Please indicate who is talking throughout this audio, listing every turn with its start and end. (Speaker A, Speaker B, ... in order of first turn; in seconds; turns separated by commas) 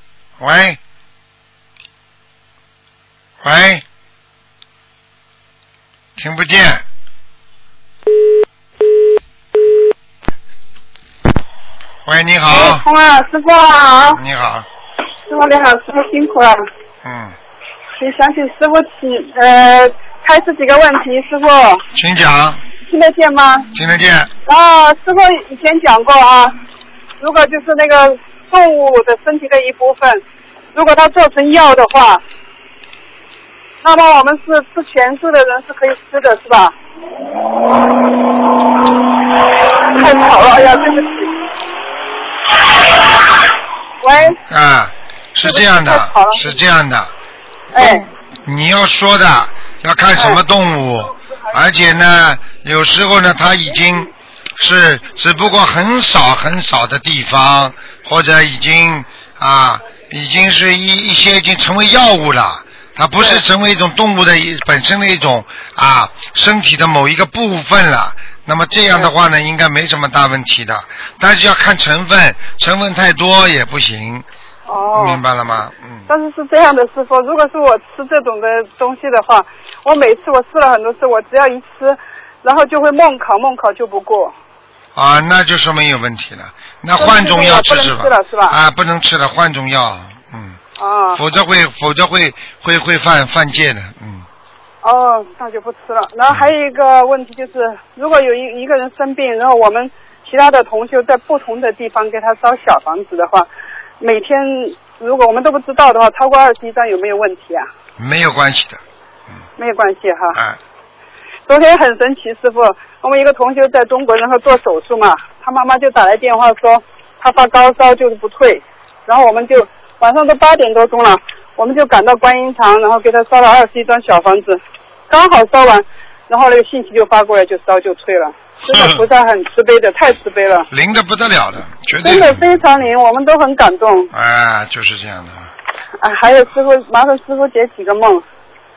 Speaker A: 0.4-0.8, Speaker A: 3.4-3.8, Speaker A: 6.2-6.8, Speaker A: 12.1-12.8, Speaker B: 12.5-14.2, Speaker A: 14.1-14.7, Speaker B: 15.3-16.6, Speaker A: 17.0-17.4, Speaker B: 18.0-21.8, Speaker A: 21.9-22.6, Speaker B: 22.9-23.7, Speaker A: 23.7-24.3, Speaker B: 24.4-26.5, Speaker B: 27.2-30.2, Speaker B: 30.7-32.2, Speaker B: 33.8-36.7, Speaker B: 39.9-41.3, Speaker B: 44.0-44.4, Speaker A: 44.1-47.1, Speaker B: 45.4-46.5, Speaker B: 47.7-48.0, Speaker A: 47.8-74.2, Speaker B: 74.7-75.2, Speaker A: 74.9-76.1, Speaker B: 76.1-84.3, Speaker A: 84.9-90.6, Speaker B: 87.0-88.5, Speaker B: 90.8-91.2, Speaker A: 91.1-94.2, Speaker B: 94.8-103.5, Speaker B: 104.0-107.7, Speaker A: 108.0-108.8, Speaker B: 109.6-110.4, Speaker B: 111.5-130.7, Speaker A: 130.7-132.4, Speaker B: 132.0-134.1, Speaker A: 134.1-135.5, Speaker B: 136.0-138.2